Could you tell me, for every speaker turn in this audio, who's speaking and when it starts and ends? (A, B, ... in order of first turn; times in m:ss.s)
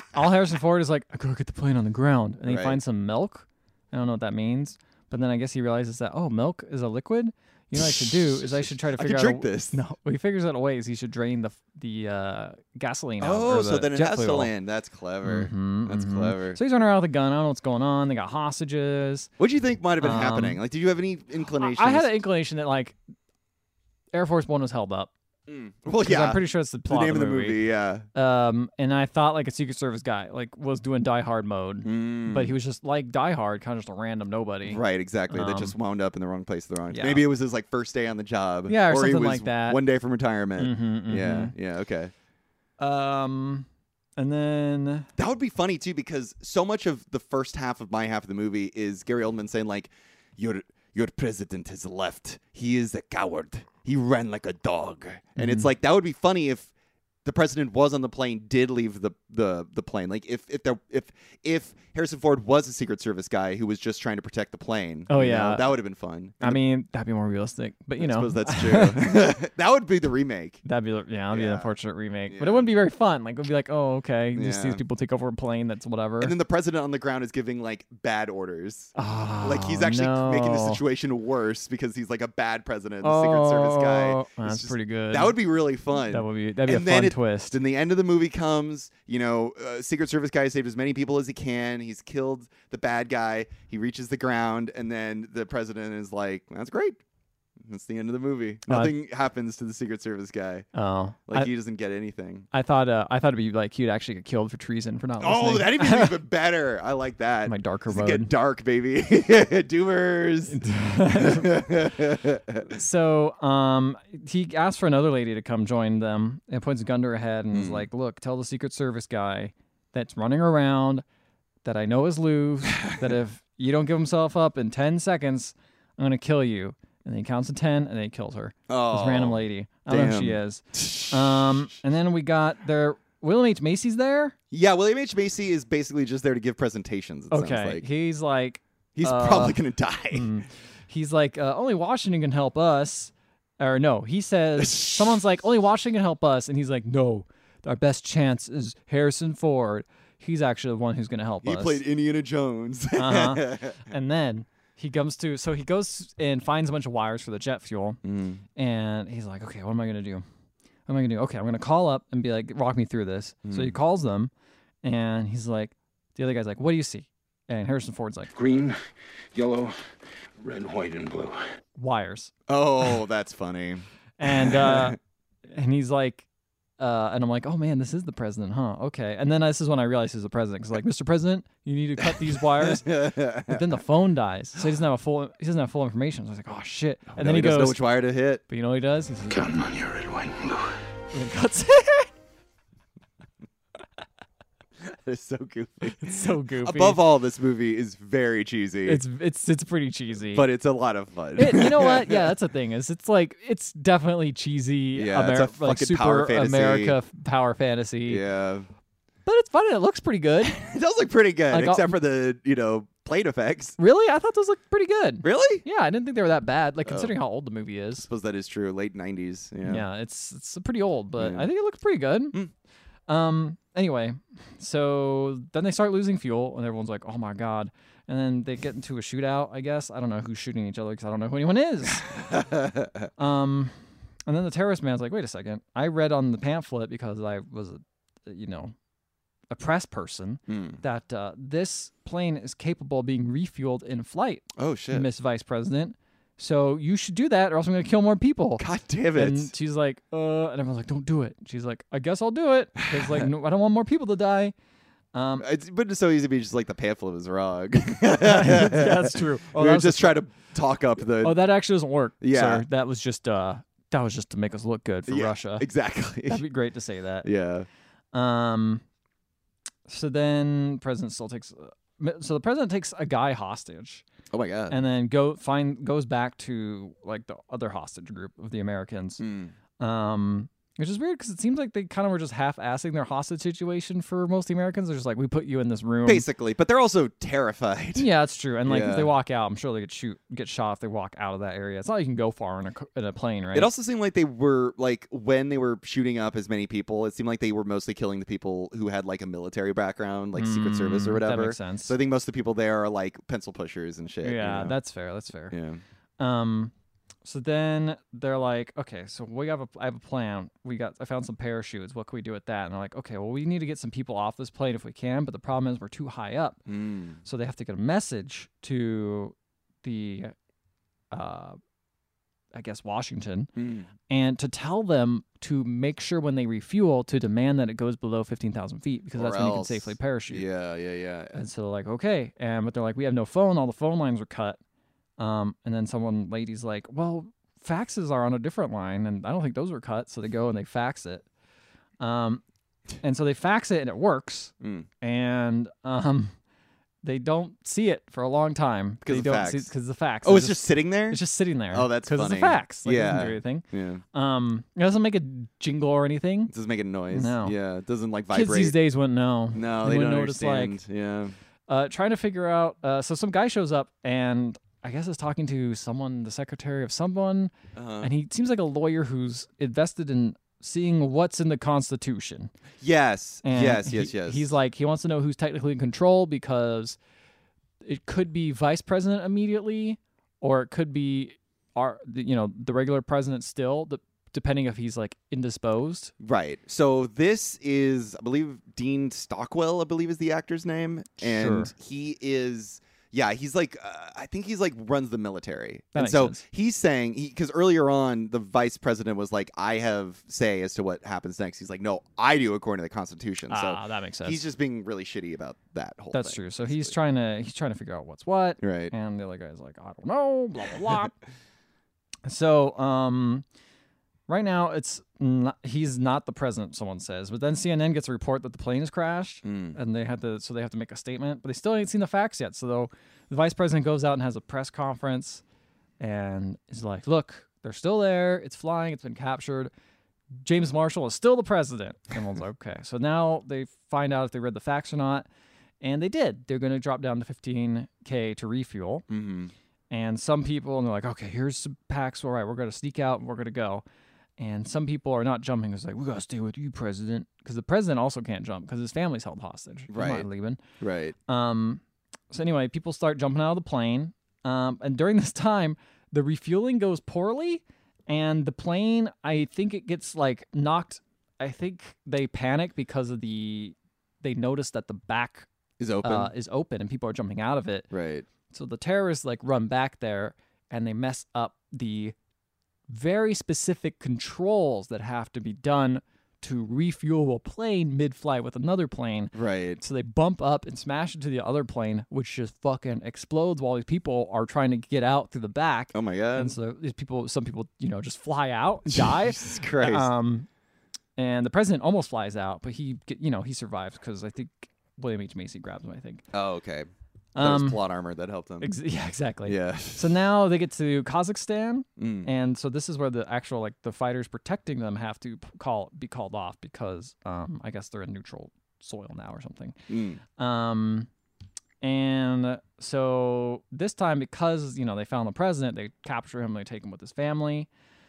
0:00.1-0:14.5 A
0:02.5-0:02.8 B
0:07.8-0:09.8 B
0:13.2-0:16.6 B
0:15.2-0:19.3 A
0:19.4-0:22.1 B
0:20.0-0:20.6 A
0:21.5-0:23.0 A
0:24.1-0:25.1 A
0:25.5-0:28.1 B
0:26.0-0:27.6 A
0:28.2-0:35.8 A
0:31.8-0:32.5 B
0:34.7-0:42.1 B
0:36.9-0:37.2 A
0:38.7-0:39.8 A
0:40.6-0:41.5 A
0:42.8-0:43.7 A
0:44.2-0:45.1 A
0:45.2-0:56.7 B
0:55.4-0:55.7 A
0:57.2-1:06.6 B
1:05.1-1:05.7 A
1:06.4-1:09.0 A
1:08.0-1:10.6 B
1:10.6-1:16.4 A
1:11.3-1:11.7 B
1:12.3-1:12.7 B
1:14.4-1:14.8 B
1:16.2-1:37.0 B
1:19.0-1:20.8 A
1:23.0-1:25.4 A
1:25.9-1:27.6 A
1:37.7-1:40.7 B
1:38.7-1:38.9 A
1:40.7-1:41.5 A
1:41.3-1:42.5 B
1:42.5-1:46.2 A
1:45.2-1:52.7 B
1:47.5-1:48.3 A
1:50.5-1:52.0 A
1:52.6-2:01.0 A
1:57.5-1:57.9 B
2:01.6-2:14.4 A
2:02.8-2:03.1 B
2:08.7-2:11.6 B
2:14.5-2:17.9 B
2:17.3-2:19.6 A
2:19.0-2:20.3 B
2:20.1-2:31.8 A
2:24.6-2:25.0 B
2:31.4-2:33.9 B
2:33.0-2:38.0 A
2:38.0-2:38.4 B
2:38.6-2:40.2 A
2:40.9-2:44.3 A
2:43.4-2:43.8 B
2:44.8-2:48.3 A
2:48.3-2:48.8 C
2:49.3-2:49.8 C
2:50.4-2:51.4 C
2:51.8-2:52.3 A
2:52.5-2:55.0 B
2:54.2-2:56.3 A
2:56.8-3:07.8 A
3:02.3-3:03.7 B
3:07.1-3:08.4 B
3:08.5-3:09.6 A
3:09.3-3:10.8 C
3:11.1-3:12.1 A
3:14.8-3:19.0 B
3:15.9-3:17.0 A
3:18.9-3:20.5 A
3:20.3-3:22.3 B
3:21.4-3:28.2 A
3:25.0-3:27.0 B
3:28.1-3:28.7 B
3:29.3-3:30.6 A
3:30.4-3:33.8 B
3:31.5-3:32.0 A
3:33.8-3:38.1 A
3:35.2-3:35.6 B
3:36.9-3:37.1 B
3:38.1-3:39.8 B
3:39.6-3:42.4 A
3:41.2-3:41.5 B
3:43.1-3:52.2 A
3:52.3-3:52.9 B
3:53.2-3:53.7 A
3:54.3-3:58.7 A
3:59.5-4:08.6 A
4:00.5-4:00.8 B
4:04.6-4:05.1 B
4:08.6-4:09.5 B
4:09.2-4:14.5 A
4:12.8-4:13.2 B
4:15.1-4:15.5 A
4:15.4-4:21.4 B
4:18.1-4:20.2 A
4:21.0-4:25.7 A
4:22.2-4:22.6 B
4:25.1-4:26.4 B
4:26.3-4:27.3 A
4:27.2-4:27.7 B
4:28.1-4:28.8 A
4:29.9-4:34.0 A
4:34.3-4:34.8 B
4:34.7-4:39.2 A
4:39.2-4:39.5 B
4:39.8-4:46.3 A
4:46.1-4:48.1 B
4:48.0-4:53.7 A
4:48.7-4:49.1 B
4:53.5-5:04.8 B
5:00.4-5:01.9 A
5:04.2-5:05.6 A
5:05.5-5:05.8 B
5:06.2-5:06.7 A
5:07.2-5:16.6 A
5:16.7-5:17.2 B
5:17.2-5:20.3 A
5:21.1-5:21.6 A
5:22.5-5:23.5 A
5:23.6-5:23.9 B
5:24.0-5:30.4 A
5:29.2-5:31.4 B
5:31.3-5:34.6 A
5:35.2-5:41.2 A
5:42.0-5:42.4 A
5:43.0-5:46.4 A
5:44.6-5:44.9 B
5:47.0-5:56.5 A
5:49.0-5:49.7 B
5:50.2-5:51.2 B
5:51.7-5:54.0 B
5:56.5-5:58.8 B
5:57.1-5:57.6 A
5:58.3-6:00.8 A
5:59.5-6:01.4 B
6:01.7-6:12.5 A
6:07.8-6:08.1 B
6:12.8-6:14.5 B
6:13.4-6:17.0 A
6:17.8-6:26.1 A
6:26.2-6:46.9 B
6:31.2-6:31.7 A
6:36.0-6:36.4 A
6:43.5-6:44.4 A
6:46.1-6:51.1 A
6:48.6-6:48.9 B
6:52.2-6:53.4 A
6:54.3-7:05.4 A
6:59.4-6:59.8 B
7:06.0-7:09.7 A
7:10.4-7:15.3 A
7:15.8-7:19.0 A
7:19.1-7:19.5 B
7:19.9-7:23.8 A
7:24.4-7:30.6 A
7:29.9-7:30.3 B
7:30.8-7:31.2 B
7:31.3-7:45.5 A
7:45.8-7:46.3 B
7:46.0-7:47.9 A
7:47.9-7:48.3 B
7:48.5-7:52.2 A
7:52.9-8:10.5 A
7:59.3-7:59.8 B
8:05.9-8:06.6 B
8:08.9-8:10.1 B
8:11.2-8:16.2 A
8:16.3-8:16.9 B
8:17.4-8:17.8 A
8:17.4-8:18.7 B
8:18.6-8:31.1 A
8:19.5-8:20.1 B
8:22.0-8:22.3 B
8:29.9-8:30.2 B
8:31.8-8:37.7 A